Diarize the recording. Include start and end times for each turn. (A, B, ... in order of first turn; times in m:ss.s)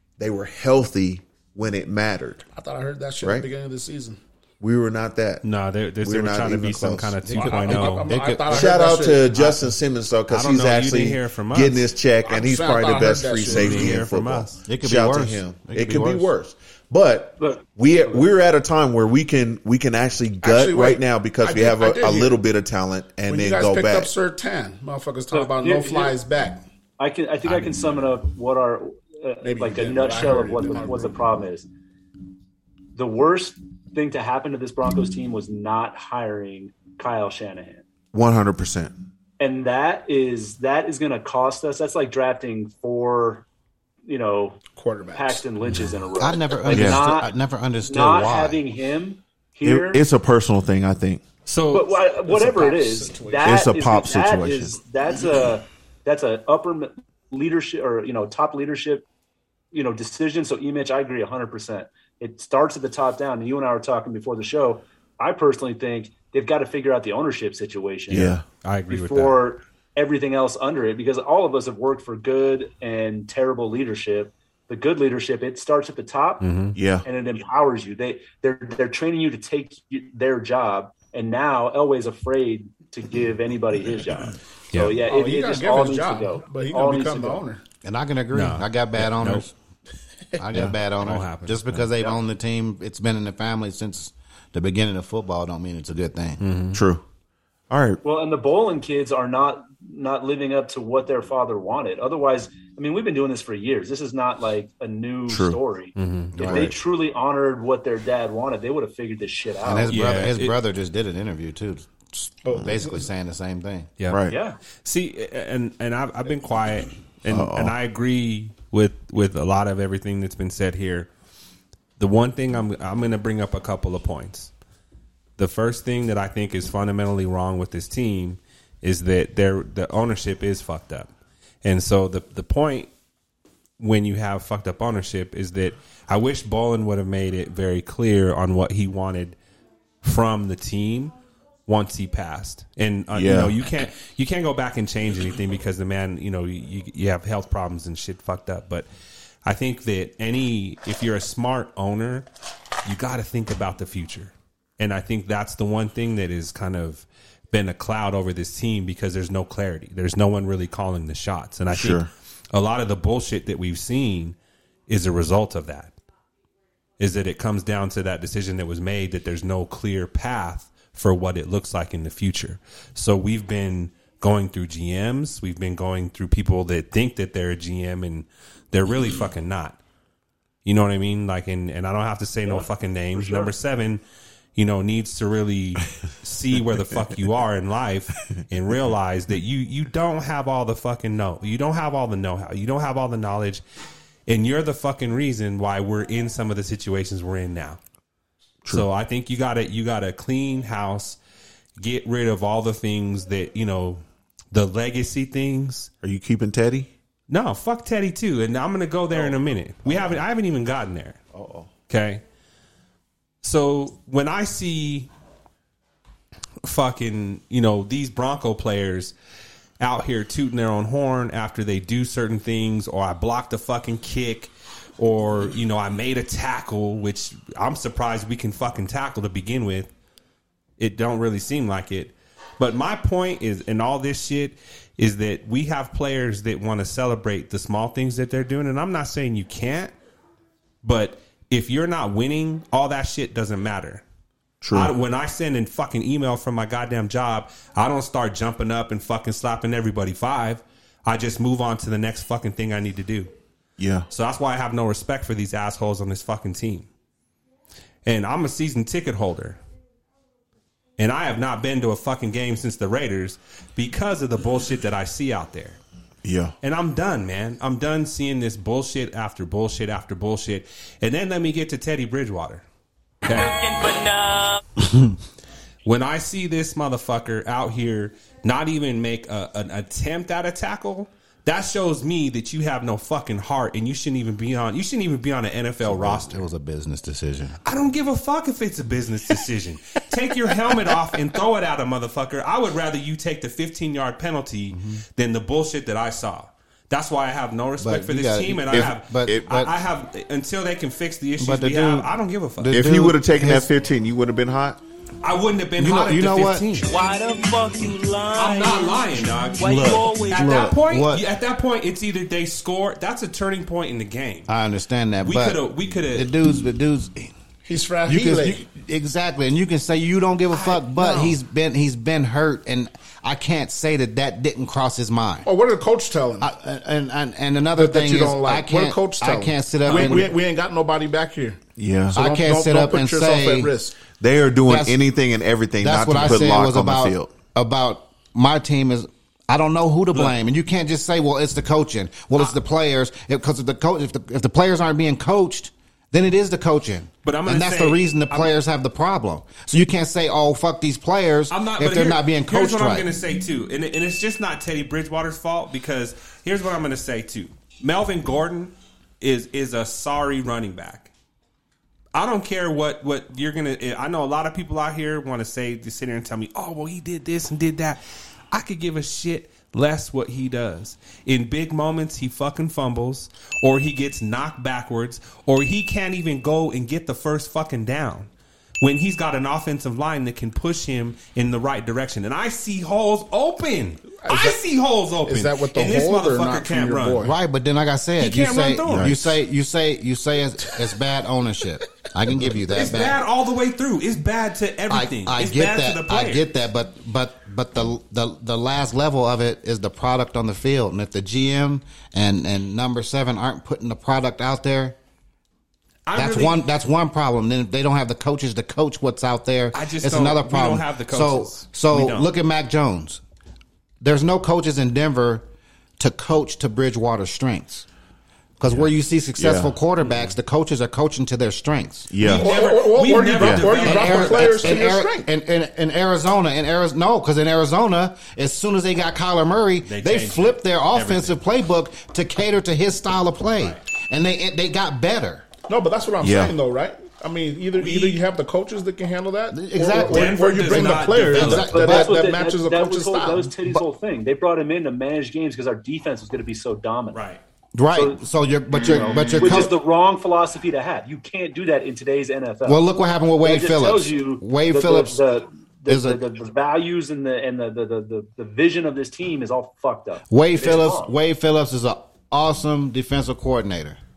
0:00.2-0:02.4 A
0:02.5-0:04.2 B
0:03.2-0:03.5 A
0:04.6-0:05.4 A
0:05.4-0:08.1 C
0:06.0-0:07.4 A
0:07.2-0:08.8 D
0:07.3-0:09.5 B
0:08.5-0:24.1 A
0:10.3-0:11.9 C
0:12.2-0:14.0 B
0:13.5-0:14.6 C
0:14.6-0:16.3 D
0:17.4-0:18.3 E
0:20.4-0:22.4 B
0:23.3-0:26.6 B
0:25.3-0:26.2 E
0:27.0-0:31.7 E
0:27.5-0:28.0 C
0:29.4-0:31.2 B
0:32.9-0:37.8 E
0:38.1-0:38.9 A
0:39.4-0:43.4 E
0:44.0-0:44.6 E
0:44.7-0:45.4 B
0:45.1-0:47.3 E
0:46.2-0:48.6 D
0:46.7-0:47.0 A
0:47.8-0:50.0 E
0:49.6-0:51.2 A
0:51.4-0:52.0 C
0:51.7-0:59.1 E
0:52.2-0:53.6 B
0:53.4-0:54.8 A
0:59.7-1:08.4 E
1:08.1-1:08.4 A
1:08.6-1:09.4 C
1:08.9-1:16.4 E
1:16.4-1:16.8 C
1:16.7-1:17.0 A
1:17.0-1:27.4 E
1:25.0-1:27.6 B
1:27.8-1:29.5 D
1:28.3-1:29.4 C
1:30.4-1:36.4 D
1:30.6-1:31.9 C
1:36.4-1:36.8 C
1:36.7-1:37.0 A
1:37.7-1:38.0 A
1:38.0-1:50.0 E
1:45.3-1:45.6 A
1:46.0-1:46.4 C
1:46.3-1:46.7 D
1:46.4-1:46.7 A
1:49.6-1:53.9 D
1:49.9-1:50.6 C
1:52.4-1:53.0 B
1:54.1-1:54.4 A
1:54.3-1:54.6 E
1:54.8-2:01.1 C
1:57.3-1:57.7 A
2:02.0-2:04.5 C
2:05.4-2:11.1 C
2:11.6-2:12.9 C
2:13.8-2:19.4 C
2:20.0-2:21.1 C
2:21.7-2:28.9 C
2:23.1-2:23.5 A
2:29.4-2:32.2 C
2:32.8-2:44.4 C
2:41.7-2:42.1 A
2:44.9-2:45.9 C
2:47.0-2:59.8 C
3:00.6-3:04.0 C
3:02.5-3:03.5 E
3:04.6-3:13.6 C
3:14.3-3:17.8 C
3:18.7-3:21.2 C
3:21.8-3:25.9 C
3:26.0-3:26.9 A
3:27.3-3:31.2 C
3:29.1-3:30.2 A
3:31.3-3:31.7 A
3:31.9-3:32.2 C
3:33.4-3:35.1 C
3:36.6-3:39.1 C
3:39.8-3:49.9 C
3:50.8-3:59.9 C
4:00.8-4:04.0 C
4:04.6-4:04.9 A
4:04.7-4:13.3 C
4:13.8-4:14.1 A
4:14.1-4:16.9 C
4:18.0-4:19.6 C
4:21.0-4:25.8 C
4:26.2-4:26.5 A
4:26.6-4:32.6 C
4:33.2-4:33.6 C
4:33.2-4:34.6 F
4:35.8-4:46.5 C
4:45.8-4:47.6 D
4:47.6-5:02.7 C
4:54.7-4:55.0 D
4:57.8-4:59.7 D
4:58.7-4:59.5 A
5:01.4-5:03.7 D
5:02.7-5:04.8 A
5:05.2-5:06.9 C
5:05.8-5:06.8 D
5:06.9-5:10.6 F
5:08.3-5:14.5 C
5:09.6-5:11.2 D
5:14.5-5:17.3 D
5:15.2-5:16.3 C
5:17.6-5:18.6 B
5:18.1-5:25.5 D
5:20.5-5:21.4 C
5:25.4-5:26.5 B
5:26.4-5:30.3 D
5:27.8-5:31.6 B
5:31.8-5:32.2 A
5:32.1-5:33.7 D
5:32.1-5:34.0 B
5:34.1-5:37.3 A
5:34.6-5:35.0 D
5:35.8-5:53.1 D
5:47.2-5:48.5 C
5:51.5-6:01.1 C
6:02.1-6:18.3 C
6:18.8-6:27.3 C
6:24.2-6:24.6 B
6:25.2-6:27.3 B
6:27.2-6:33.2 D
6:28.2-6:29.2 C
6:28.9-6:29.1 A
6:32.7-6:36.5 C
6:34.9-6:45.0 D
6:46.0-6:46.6 C
6:46.1-6:53.2 D
6:49.7-6:52.3 C
6:54.0-6:55.4 D
6:56.0-6:57.9 D
6:58.6-7:02.1 D
6:59.4-6:59.7 A
7:00.0-7:00.3 C
7:02.1-7:02.6 A
7:02.2-7:04.9 C
7:02.2-7:05.3 B
7:03.4-7:03.8 A
7:03.8-7:15.5 D
7:09.8-7:11.4 C
7:15.7-7:23.5 B
7:16.2-7:16.6 A
7:17.8-7:18.2 C
7:19.5-7:22.1 D
7:20.0-7:21.8 C
7:21.7-7:27.2 E
7:27.1-7:27.4 C
7:27.7-7:29.7 D
7:27.9-7:28.2 E
7:28.8-7:32.8 E
7:32.6-7:35.2 D
7:33.4-7:41.1 E
7:35.9-7:36.2 D
7:40.3-7:44.0 D